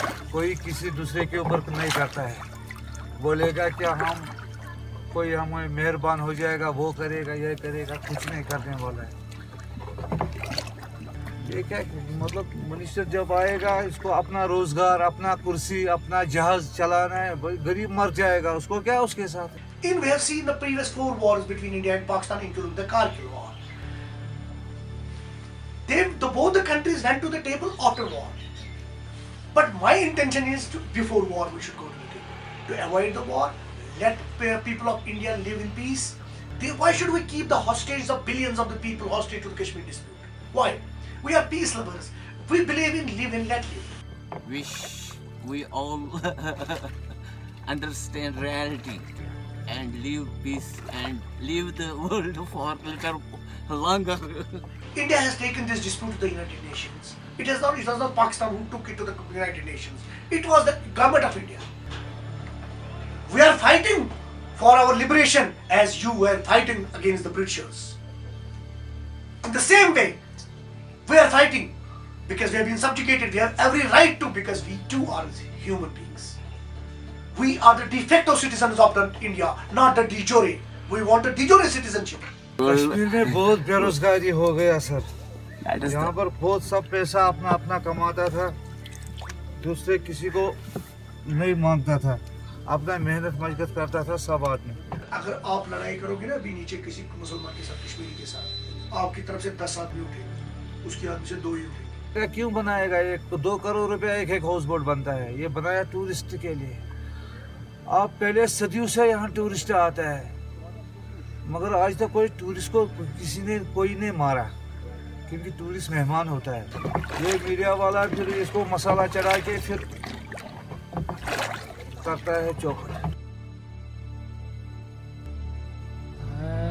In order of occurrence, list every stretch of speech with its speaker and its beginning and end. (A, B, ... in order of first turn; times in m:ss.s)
0:00.3-0:02.4 A
0:03.2-0:04.3 A
0:05.1-0:09.1 A
0:11.4-0:19.6 A
0:19.8-0:23.6 B
0:25.9-0:28.4 B
0:29.5-0:43.9 B
0:44.4-0:46.9 C
0:47.6-0:49.1 C
0:49.7-0:54.7 C
0:54.9-1:01.6 B
1:03.3-1:08.0 B
1:09.4-1:10.2 B
1:11.0-1:11.7 B
1:12.3-1:16.4 B
1:17.3-1:22.2 B
1:22.6-1:25.1 A
1:25.8-1:28.6 A
1:29.6-1:30.6 A
1:31.2-1:34.8 A
1:35.1-1:40.3 B
1:40.8-1:41.9 B
1:42.1-1:46.8 A
1:47.9-1:50.3 A
1:51.4-1:54.5 A
1:55.3-1:59.8 A
2:02.0-2:03.0 A